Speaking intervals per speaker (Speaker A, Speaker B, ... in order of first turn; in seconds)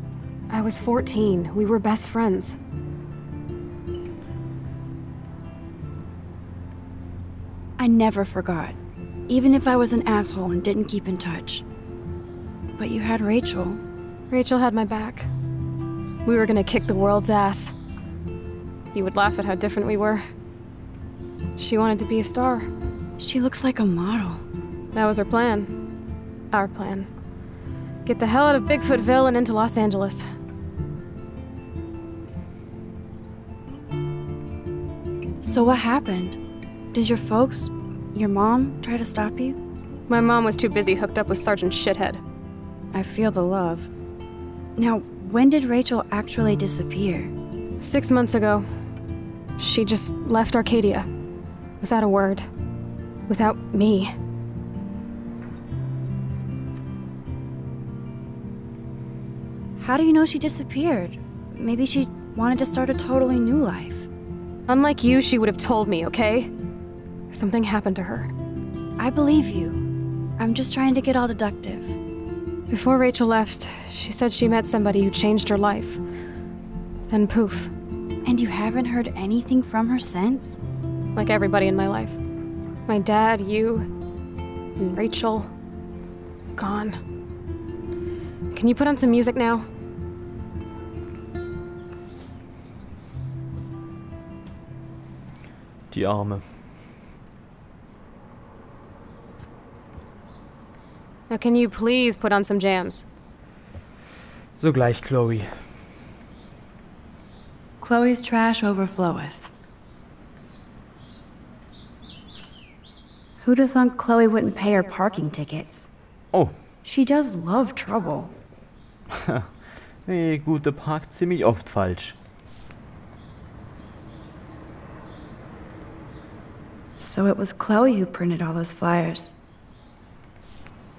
Speaker A: 0.5-2.6, 14.3-15.3, 16.2-17.7, 18.9-20.2, 21.6-22.7, 24.9-25.7, 26.5-27.1, 28.1-30.2, 40.1-42.2, 47.8-48.7, 49.6-51.1, 51.8-52.5, 53.3-54.1, 64.7-66.5, 67.3-68.3, 72.7-76.0, 77.1-77.7, 81.2-82.2, 82.9-83.9, 84.8-85.5, 86.6-87.0, 88.5-89.7, 101.3-103.0
Speaker B: 7.8-8.8, 9.3-11.6, 12.8-13.8, 23.2-24.4, 35.4-36.4, 36.9-39.6, 42.9-43.9, 44.8-47.3, 59.8-64.1, 69.0-69.8, 70.4-72.0, 78.2-80.6, 107.8-109.5, 113.4-115.9, 116.8-118.3, 127.0-129.4
Speaker C: 95.9-96.5, 104.6-105.7, 119.1-122.2